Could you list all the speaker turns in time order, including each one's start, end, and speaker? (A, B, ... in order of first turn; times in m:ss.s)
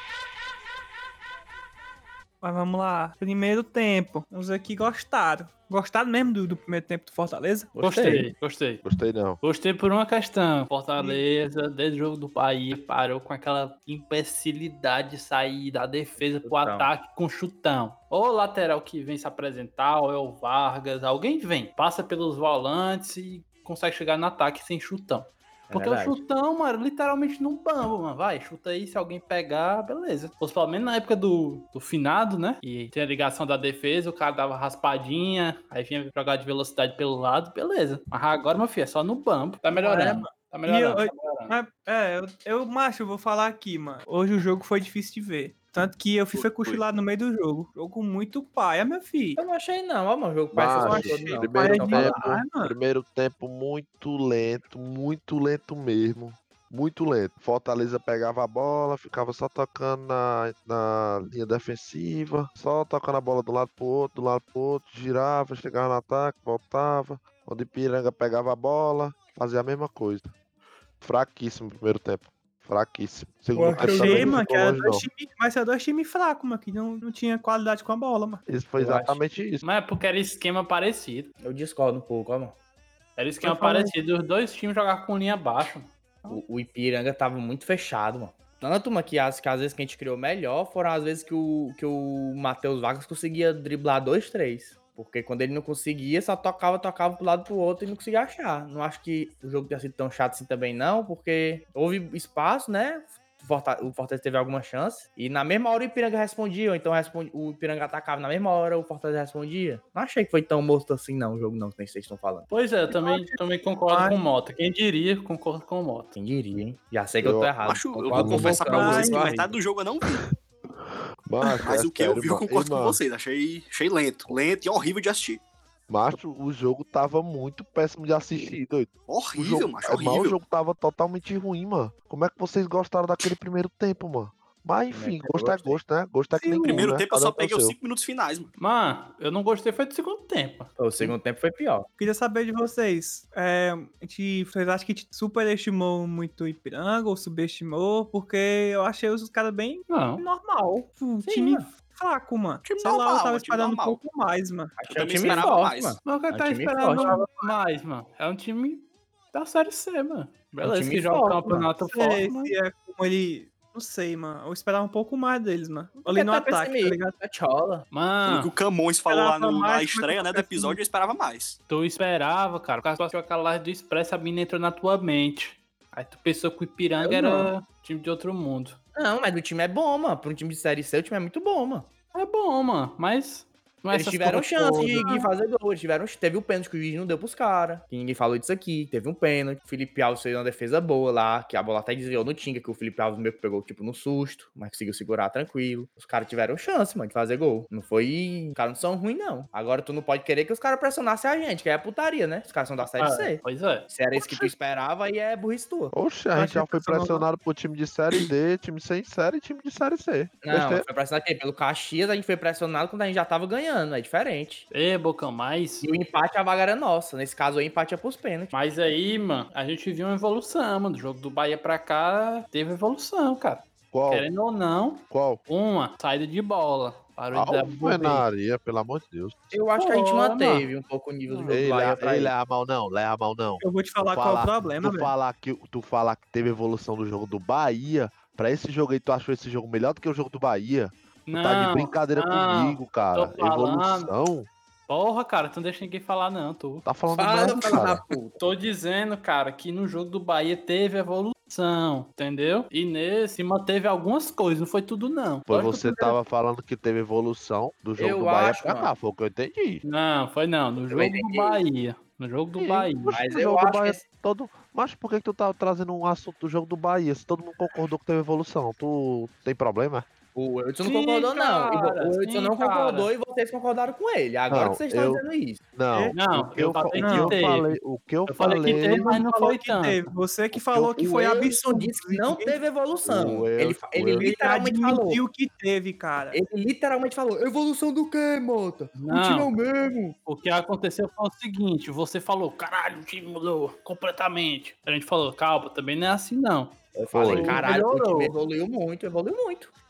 0:02.4-0:07.8 A
0:07.7-0:08.3 B
0:07.8-0:08.8 C
0:08.8-0:09.4 D
0:09.4-0:41.5 C
0:16.4-0:16.9 B
0:25.7-0:26.2 B
0:39.7-0:49.4 A
0:46.3-0:46.8 E
0:49.4-0:52.2 B
0:50.5-1:10.3 D
0:50.8-0:52.7 A
1:11.0-1:15.0 D
1:13.6-1:18.4 A
1:13.8-1:14.3 B
1:18.5-1:19.6 D
1:18.8-1:19.2 B
1:19.6-1:21.3 C
1:21.4-1:22.5 B
1:23.2-1:25.9 C
1:23.4-1:23.9 A
1:26.3-1:52.5 B
1:52.5-1:56.1 C
1:52.9-1:54.2 A
1:56.1-1:59.6 B
1:57.2-1:58.6 D
1:57.6-2:00.2 E
1:58.6-1:59.3 A
2:01.2-2:03.0 D
2:01.6-2:05.4 E
2:05.9-2:17.8 D
2:09.1-2:10.4 E
2:14.9-2:15.8 B
2:16.4-2:16.9 A
2:16.6-2:18.5 E
2:18.6-2:21.1 C
2:20.8-2:21.9 B
2:22.0-2:35.5 A
2:29.9-2:30.2 C
2:31.2-2:31.7 B
2:32.6-2:34.0 E
2:34.8-2:37.1 B
2:34.9-2:36.0 E
2:36.0-2:42.5 C
2:36.9-2:37.4 A
2:40.6-2:41.7 B
2:41.8-2:47.1 A
2:46.0-2:47.8 B
2:47.9-2:48.5 C
2:48.2-2:51.6 E
2:49.1-2:50.8 A
2:51.7-2:58.8 C
2:57.0-2:57.5 B
2:58.9-3:01.9 B
3:02.1-3:05.2 C
3:03.9-3:25.9 B
3:23.0-3:24.5 C
3:25.9-3:30.8 D
3:26.3-3:27.2 A
3:30.4-3:34.7 B
3:34.7-3:35.9 C
3:35.8-3:38.5 B
3:38.5-3:48.2 C
3:43.9-3:44.3 D
3:45.1-3:45.4 D
3:47.3-3:49.5 D
3:49.5-3:52.3 B
3:49.8-3:50.7 C
3:51.5-4:04.5 D
3:53.6-3:55.1 A
4:01.3-4:04.1 C
4:04.9-4:06.8 C
4:06.8-4:08.0 D
4:07.2-4:08.4 B
4:08.4-4:16.2 C
4:15.5-4:19.8 D
4:18.0-4:18.9 B
4:19.8-4:23.2 C
4:20.9-4:21.6 B
4:22.6-4:30.0 D
4:23.1-4:24.0 B
4:30.3-4:35.6 B
4:30.8-4:33.1 C
4:34.5-4:35.2 D
4:35.8-4:39.0 D
4:35.9-4:36.2 A
4:36.1-4:37.8 C
4:37.0-4:37.4 A
4:38.3-4:40.1 C
4:38.7-4:42.6 A
4:41.0-4:45.2 B
4:43.0-4:44.3 D
4:44.2-4:46.4 A
4:46.3-4:50.2 B
4:49.0-4:49.5 C
4:50.2-4:56.8 C
4:56.9-4:59.7 B
4:57.1-4:57.6 D
4:57.3-4:58.4 C